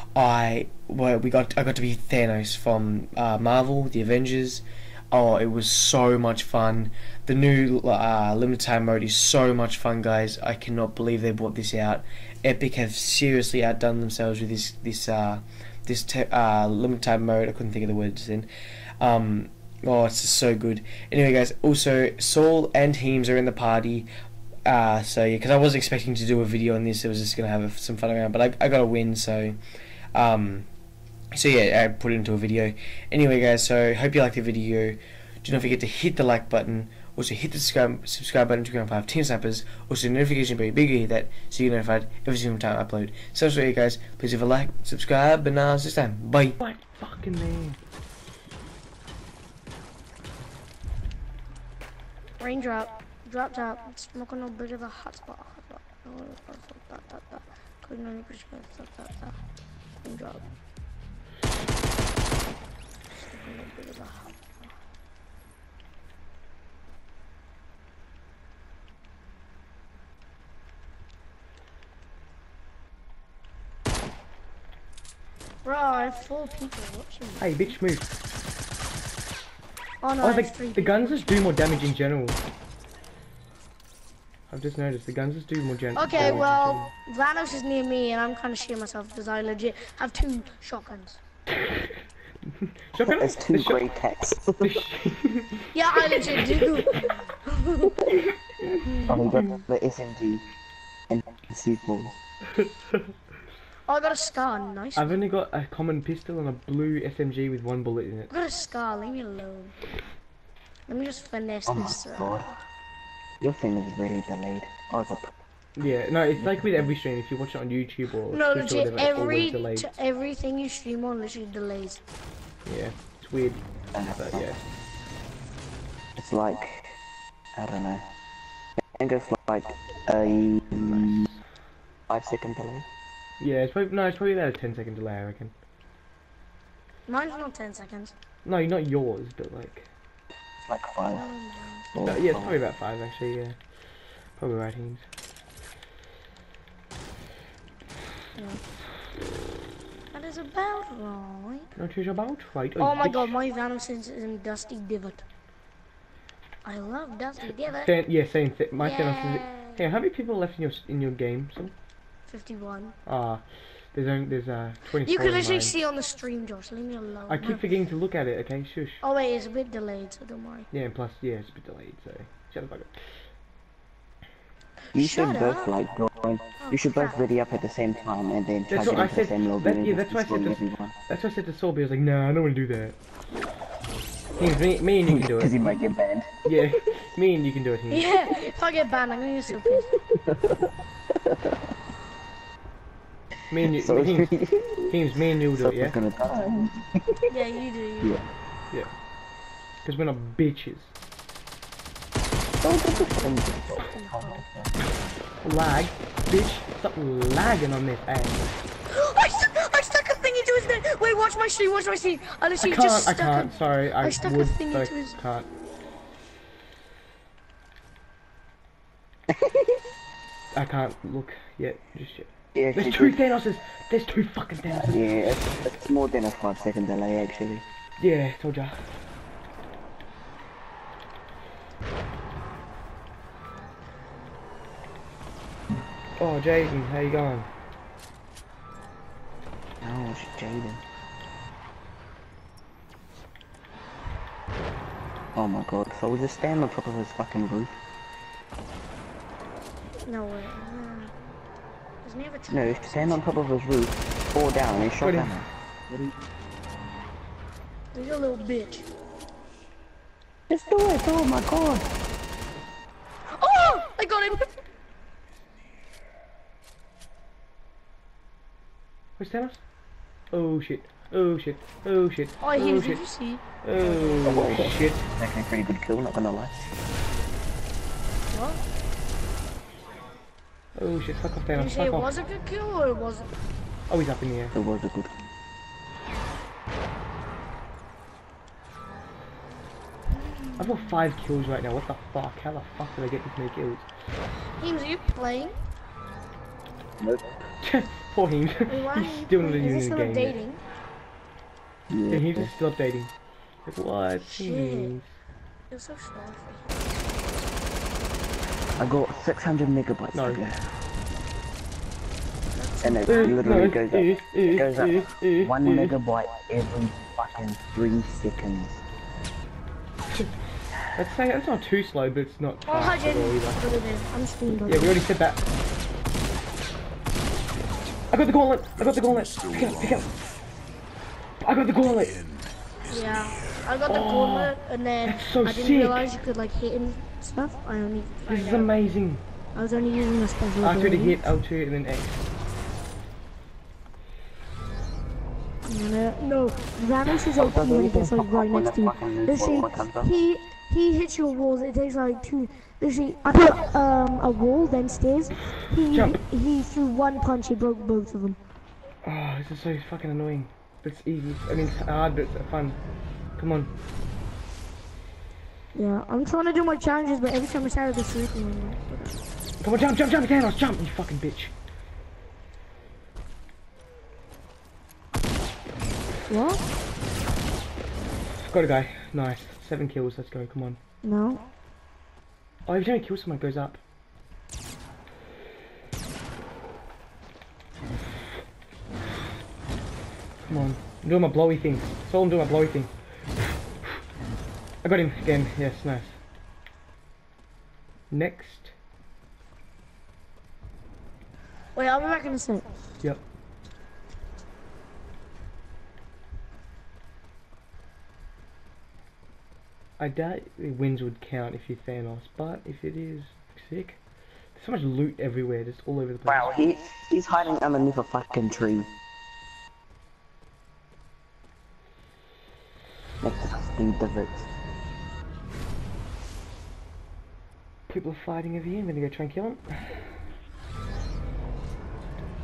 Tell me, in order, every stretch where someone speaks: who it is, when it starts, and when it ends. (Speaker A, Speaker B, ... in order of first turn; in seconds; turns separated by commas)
Speaker A: 0.1-18.5, Speaker A: 19.0-24.1, Speaker A: 24.7-29.6, Speaker A: 30.1-30.7, Speaker A: 31.3-46.5, Speaker B: 46.6-47.8, Speaker C: 52.4-59.4, Speaker C: 60.0-60.4, Speaker C: 63.1-64.7, Speaker C: 75.6-77.7, Speaker B: 77.4-78.1, Speaker C: 80.0-81.2, Speaker B: 80.2-82.4, Speaker B: 84.5-86.9, Speaker C: 85.9-91.2, Speaker B: 91.5-93.8, Speaker D: 92.9-94.8, Speaker B: 94.6-96.8, Speaker C: 95.7-98.0, Speaker B: 98.0-99.5, Speaker C: 98.8-99.2, Speaker D: 99.1-100.4, Speaker D: 101.1-102.1, Speaker C: 103.9-105.2, Speaker B: 105.0-108.3, Speaker C: 108.3-109.8, Speaker C: 110.9-112.4, Speaker D: 111.7-112.5, Speaker D: 113.4-115.3, Speaker B: 115.8-119.9, Speaker D: 116.4-116.7, Speaker C: 118.3-122.0, Speaker B: 122.6-123.6, Speaker D: 123.9-124.6, Speaker B: 124.1-124.6, Speaker D: 126.2-126.9, Speaker D: 127.5-128.1, Speaker D: 129.0-131.3, Speaker B: 130.7-131.4, Speaker D: 132.1-132.8, Speaker B: 133.4-135.5, Speaker C: 137.1-138.1, Speaker B: 138.4-139.9, Speaker D: 140.6-141.3, Speaker C: 141.1-141.9, Speaker D: 141.9-142.6, Speaker B: 142.0-143.6, Speaker B: 144.4-145.1, Speaker C: 148.3-148.6, Speaker C: 150.1-151.7, Speaker B: 151.7-153.3, Speaker C: 152.8-155.2, Speaker C: 156.6-157.9, Speaker B: 157.7-161.7, Speaker C: 158.8-159.8, Speaker C: 162.3-162.9, Speaker B: 163.1-165.7, Speaker C: 165.0-167.6, Speaker B: 167.3-169.0, Speaker C: 169.0-170.7, Speaker B: 170.7-173.0, Speaker C: 174.9-175.7, Speaker D: 174.9-180.9, Speaker C: 176.6-177.2, Speaker B: 178.7-183.0, Speaker B: 184.4-185.8, Speaker D: 185.1-186.3, Speaker B: 186.4-188.2, Speaker C: 187.9-189.9, Speaker D: 190.1-191.6, Speaker B: 193.5-194.3, Speaker D: 193.6-195.0, Speaker B: 194.9-196.0, Speaker D: 195.5-197.3, Speaker C: 197.3-198.2, Speaker B: 199.8-200.9, Speaker D: 202.6-204.8, Speaker C: 202.8-204.4, Speaker B: 205.4-208.5, Speaker C: 208.9-215.2, Speaker B: 212.6-215.5, Speaker D: 219.3-219.8, Speaker B: 220.5-225.6, Speaker D: 222.5-223.2, Speaker D: 224.7-227.6, Speaker B: 228.0-228.8, Speaker B: 236.2-237.5, Speaker D: 239.8-240.8, Speaker D: 245.3-247.7, Speaker C: 250.1-251.1, Speaker C: 252.0-253.3, Speaker D: 252.5-256.1, Speaker B: 254.8-255.3, Speaker C: 257.9-258.9, Speaker D: 260.5-261.9, Speaker C: 263.4-264.4, Speaker B: 269.2-269.6, Speaker B: 270.3-273.0, Speaker C: 272.4-273.4, Speaker B: 273.6-275.1, Speaker C: 273.9-274.2, Speaker D: 274.2-276.5, Speaker C: 278.3-278.6, Speaker B: 280.7-282.1, Speaker C: 281.5-283.3, Speaker B: 283.9-284.6, Speaker D: 284.5-285.2, Speaker C: 290.2-290.6, Speaker B: 290.6-293.9, Speaker C: 294.6-295.6, Speaker D: 297.0-297.3, Speaker B: 297.6-300.4, Speaker C: 298.7-300.6, Speaker D: 301.9-302.5, Speaker B: 302.1-303.1, Speaker B: 303.6-305.1, Speaker C: 304.2-304.9, Speaker C: 305.7-307.5, Speaker D: 308.8-310.6, Speaker B: 310.1-310.4, Speaker C: 312.5-313.4, Speaker D: 312.8-318.8, Speaker B: 313.1-315.9, Speaker B: 320.9-323.6, Speaker C: 322.7-325.0, Speaker B: 324.7-325.4, Speaker B: 328.1-330.1, Speaker B: 331.4-332.2, Speaker C: 332.9-338.7, Speaker B: 333.9-336.0, Speaker B: 338.3-339.2, Speaker C: 339.5-341.4, Speaker B: 340.6-342.2, Speaker C: 345.6-358.4, Speaker D: 347.3-350.1, Speaker B: 355.9-356.2, Speaker B: 359.0-362.8, Speaker B: 363.4-363.7, Speaker C: 365.7-369.2, Speaker B: 369.6-371.5, Speaker C: 376.3-376.6, Speaker B: 378.4-380.8, Speaker C: 381.0-381.4, Speaker B: 382.6-383.8, Speaker B: 390.4-392.9, Speaker B: 394.8-396.2, Speaker B: 398.1-398.7, Speaker C: 401.7-402.6, Speaker B: 410.0-414.0, Speaker B: 414.5-416.6, Speaker D: 416.2-418.9, Speaker D: 423.2-424.5, Speaker B: 427.9-430.0